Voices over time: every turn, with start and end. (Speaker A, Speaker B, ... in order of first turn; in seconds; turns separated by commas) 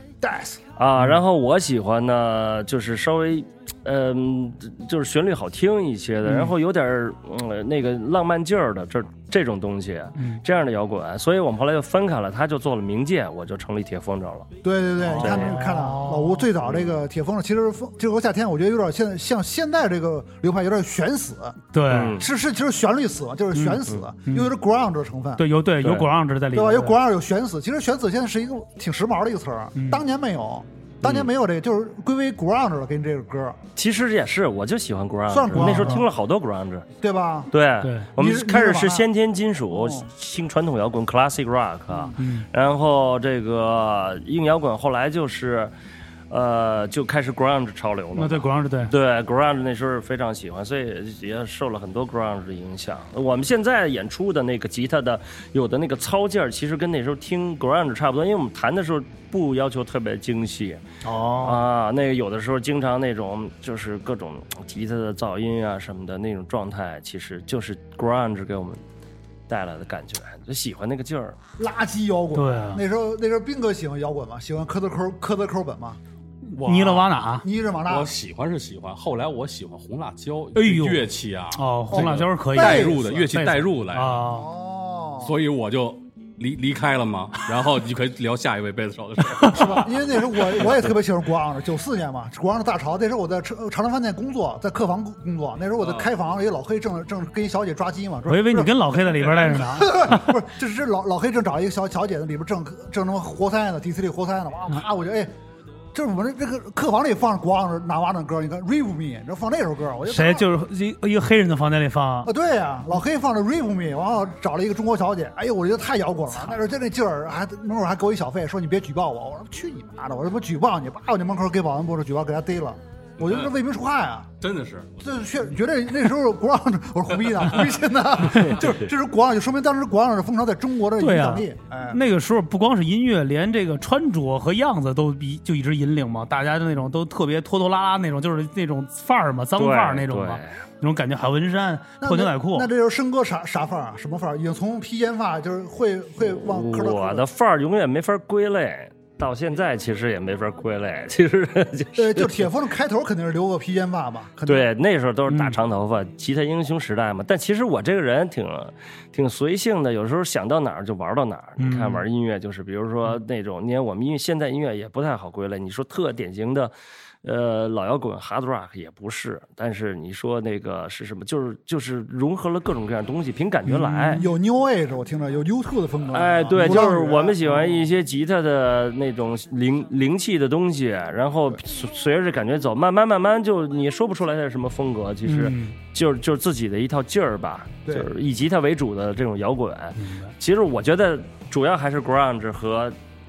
Speaker A: 0.2-0.6, Speaker B: 0.8-14.5, Speaker C: 6.2-6.5, Speaker C: 10.2-10.4, Speaker A: 14.6-21.6, Speaker C: 15.0-16.5, Speaker B: 15.2-15.6, Speaker B: 16.6-17.0, Speaker C: 21.7-22.2, Speaker B: 21.9-22.3, Speaker A: 22.1-25.4, Speaker C: 23.5-24.5, Speaker C: 25.4-27.0, Speaker B: 25.8-26.1, Speaker A: 26.5-33.6, Speaker C: 29.8-30.0, Speaker B: 33.8-36.9, Speaker A: 35.3-36.1, Speaker C: 35.5-36.0, Speaker A: 37.0-37.5, Speaker B: 37.5-45.7, Speaker C: 37.8-38.1, Speaker A: 38.2-39.1, Speaker A: 39.7-40.1, Speaker A: 41.9-42.1, Speaker C: 42.2-42.5, Speaker B: 46.3-60.8, Speaker C: 48.2-48.9, Speaker C: 61.0-61.7, Speaker B: 61.4-68.8, Speaker B: 69.5-71.4, Speaker A: 71.6-76.0, Speaker C: 72.3-72.8, Speaker C: 76.5-77.5, Speaker D: 76.6-77.1, Speaker A: 77.4-78.1, Speaker D: 77.9-84.2, Speaker C: 80.5-84.5, Speaker A: 81.9-83.3, Speaker A: 84.3-85.3, Speaker D: 85.2-89.9, Speaker C: 89.4-89.8, Speaker A: 89.5-105.3, Speaker D: 95.8-96.1, Speaker C: 98.3-100.3, Speaker A: 105.9-110.5, Speaker C: 110.1-112.3, Speaker A: 112.2-124.3, Speaker D: 123.2-123.5, Speaker D: 124.4-125.1, Speaker A: 125.0-132.0, Speaker C: 131.0-142.7, Speaker B: 139.6-140.5, Speaker A: 142.0-147.3, Speaker B: 146.2-152.5, Speaker A: 152.0-154.7, Speaker B: 154.5-166.7, Speaker C: 155.3-155.6, Speaker C: 161.6-162.1, Speaker B: 167.2-174.2, Speaker C: 173.7-174.2, Speaker A: 174.1-177.8, Speaker B: 176.1-193.0, Speaker C: 185.3-185.8, Speaker C: 190.0-190.3